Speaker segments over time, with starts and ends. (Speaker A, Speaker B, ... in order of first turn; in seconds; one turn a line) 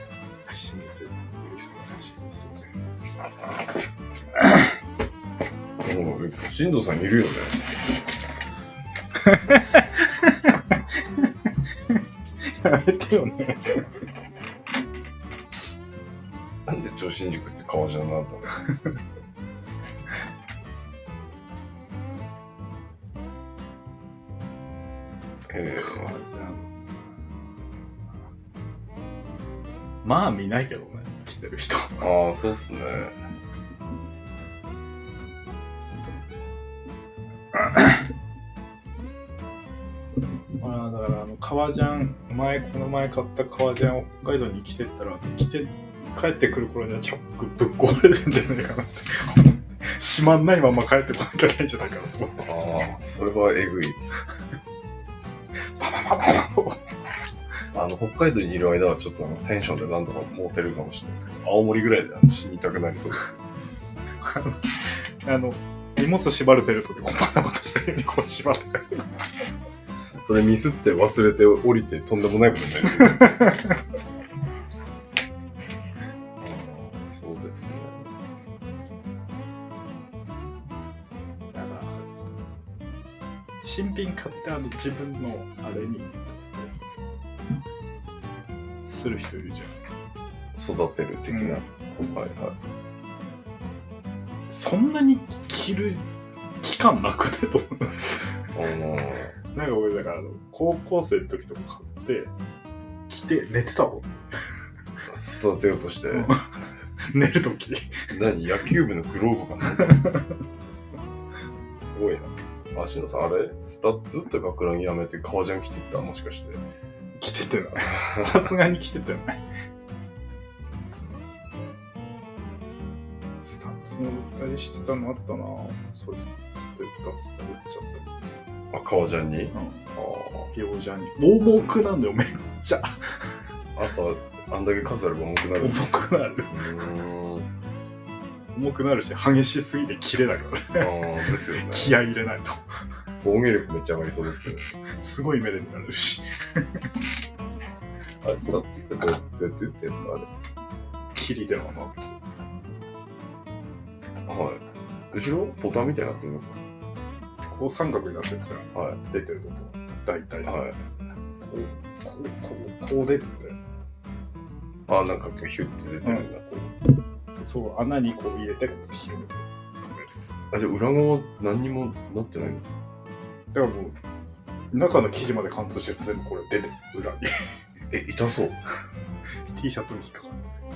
Speaker A: 0.5-2.7
Speaker B: 5.8-7.7
Speaker A: 9.3-10.6
Speaker A: 12.4-13.9
Speaker B: 16.7-18.6
Speaker B: 25.5-26.1
Speaker A: 25.8-26.7
Speaker A: 30.0-32.0
Speaker B: 32.0-33.2
Speaker A: 40.6-52.5
Speaker B: 52.4-54.0
Speaker A: 55.8-56.9
Speaker B: 57.7-63.4
Speaker A: 64.2-64.6
Speaker A: 65.2-69.1
Speaker B: 70.2-73.5
Speaker B: 76.4-78.1
Speaker A: 81.5-82.1
Speaker A: 83.6-86.7
Speaker A: 88.9-89.8
Speaker B: 90.5-92.6
Speaker A: 91.3-91.6
Speaker A: 94.5-96.0
Speaker A: 96.6-98.2
Speaker B: 98.5-99.3
Speaker A: 99.5-102.3
Speaker A: 103.1-104.1
Speaker B: 105.1-106.3
Speaker A: 106.1-108.0
Speaker B: 108.1-110.1
Speaker A: 109.9-110.2
Speaker B: 111.8-116.6
Speaker A: 117.2-119.4
Speaker B: 118.0-118.5
Speaker A: 123.4-128.1
Speaker B: 128.7-130.5
Speaker A: 129.5-129.9
Speaker A: 130.5-133.2
Speaker B: 133.8-135.8
Speaker A: 135.6-136.7
Speaker B: 136.5-137.5
Speaker A: 138.5-142.6
Speaker B: 140.8-142.0
Speaker B: 143.2-144.7
Speaker A: 145.0-146.8
Speaker B: 148.2-150.3
Speaker A: 151.2-152.2
Speaker B: 154.3-156.6
Speaker A: 157.5-160.7
Speaker B: 158.7-159.0
Speaker B: 160.4-160.8
Speaker A: 161.4-163.6
Speaker B: 164.9-166.7
Speaker A: 167.4-170.1
Speaker B: 170.5-172.7
Speaker A: 173.5-174.0
Speaker A: 174.7-177.5
Speaker B: 177.9-178.6
Speaker A: 179.5-180.4